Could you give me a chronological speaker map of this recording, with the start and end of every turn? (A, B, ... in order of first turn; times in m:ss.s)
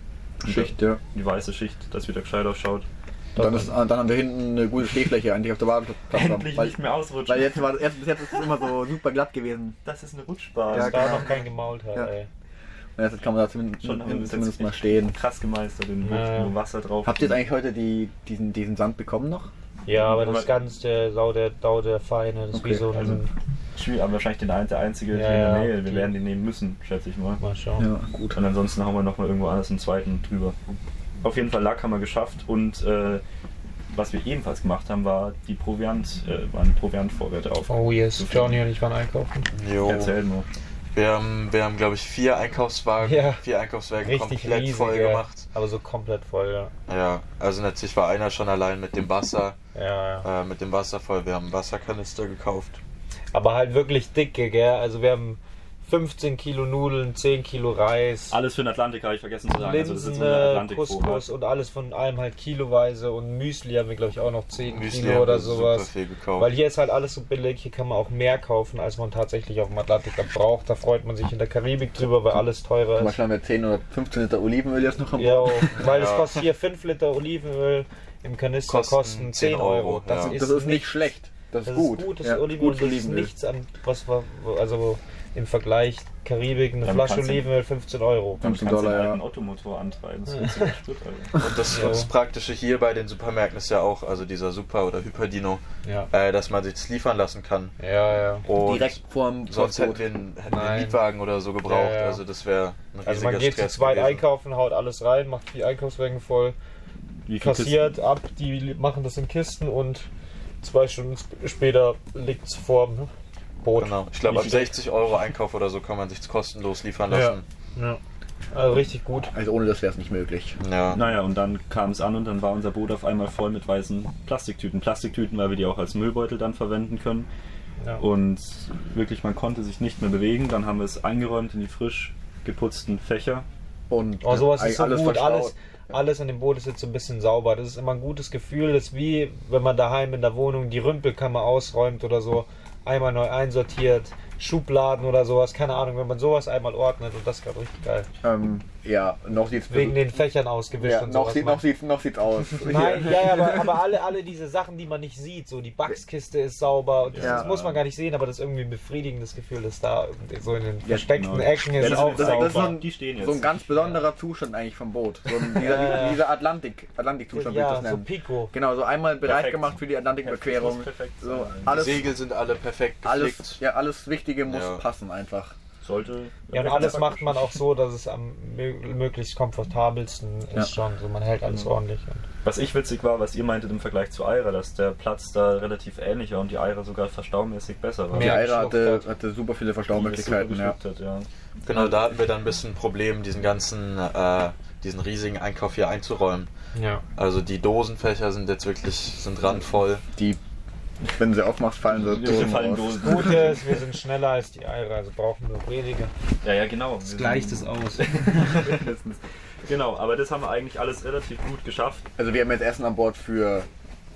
0:00.4-0:01.0 A
0:00.4-0:02.9 B
0:03.4-0:03.7 C
0:03.4-0:09.7 A
0:06.1-0:07.8 B
0:09.8-0:11.3 B
0:10.7-0:11.3 A
0:10.7-0:12.3 C
0:13.0-0:15.2 A
0:13.8-0:17.4 B
0:16.0-0:16.5 C
0:17.0-0:19.5 A
0:19.8-0:23.3 C
0:19.9-0:20.5 B
0:22.5-0:22.8 A
0:22.9-0:23.2 B
0:23.7-0:27.4 B
0:25.1-0:26.1 C
0:27.4-0:27.8 C
0:27.8-0:28.4 A
0:28.3-0:30.5 B
0:31.2-0:33.2 B
0:33.9-0:38.6 B
0:37.7-0:39.5 C
0:39.5-0:40.2 D
0:39.8-0:40.4 B
0:40.9-0:45.4 D
0:43.0-0:43.4 C
0:44.0-0:46.7 C
0:46.9-0:49.6 D
0:49.7-0:50.2 C
0:50.2-0:52.8 D
0:53.3-0:58.4 C
0:58.3-1:01.2 B
0:59.5-1:13.2 C
1:04.7-1:06.5 D
1:13.0-1:15.8 A
1:15.1-1:21.0 C
1:15.8-1:16.4 D
1:18.7-1:20.4 D
1:20.2-1:23.3 A
1:21.6-1:28.4 C
1:26.8-1:27.4 B
1:28.4-1:31.4 B
1:28.4-1:29.2 A
1:30.4-1:30.7 C
1:31.4-1:37.7 D
1:31.7-1:32.1 C
1:35.8-1:36.1 C
1:37.8-1:38.4 C
1:38.4-1:44.2 D
1:38.6-1:40.0 A
1:40.5-1:41.0 C
1:41.6-1:42.2 C
1:43.0-1:46.6 C
1:47.3-1:47.9 B
1:47.4-1:50.1 C
1:50.6-1:53.1 C
1:53.6-1:54.7 C
1:53.8-1:57.4 D
1:54.3-1:54.7 B
1:57.1-1:58.0 C
1:58.5-1:59.3 C
1:59.3-2:00.6 A
2:00.6-2:01.0 D
2:00.9-2:07.3 B
2:08.0-2:13.4 B
2:13.9-2:15.5 A
2:14.2-2:28.1 C
2:28.2-2:30.0 A
2:29.7-2:31.6 C
2:30.8-2:33.6 A
2:32.6-2:42.8 C
2:37.1-2:37.8 B
2:37.2-2:37.6 A
2:40.8-2:43.5 B
2:41.8-2:52.1 A
2:45.5-2:46.2 C
2:47.3-2:48.5 C
2:49.2-2:52.0 B
2:51.7-2:53.6 D
2:53.0-2:55.5 A
2:54.5-2:54.8 D
2:55.8-2:57.3 B
2:56.5-3:02.2 C
2:56.7-2:57.0 A
3:02.4-3:08.4 B
3:08.1-3:09.1 C
3:08.1-3:10.8 A
3:09.9-3:11.3 B
3:11.6-3:16.5 D
3:16.7-3:17.0 C
3:17.2-3:20.0 D
3:21.1-3:23.4 A
3:22.0-3:23.6 B
3:22.9-3:26.1 C
3:26.4-3:32.0 B
3:27.0-3:28.7 C
3:32.2-3:33.7 A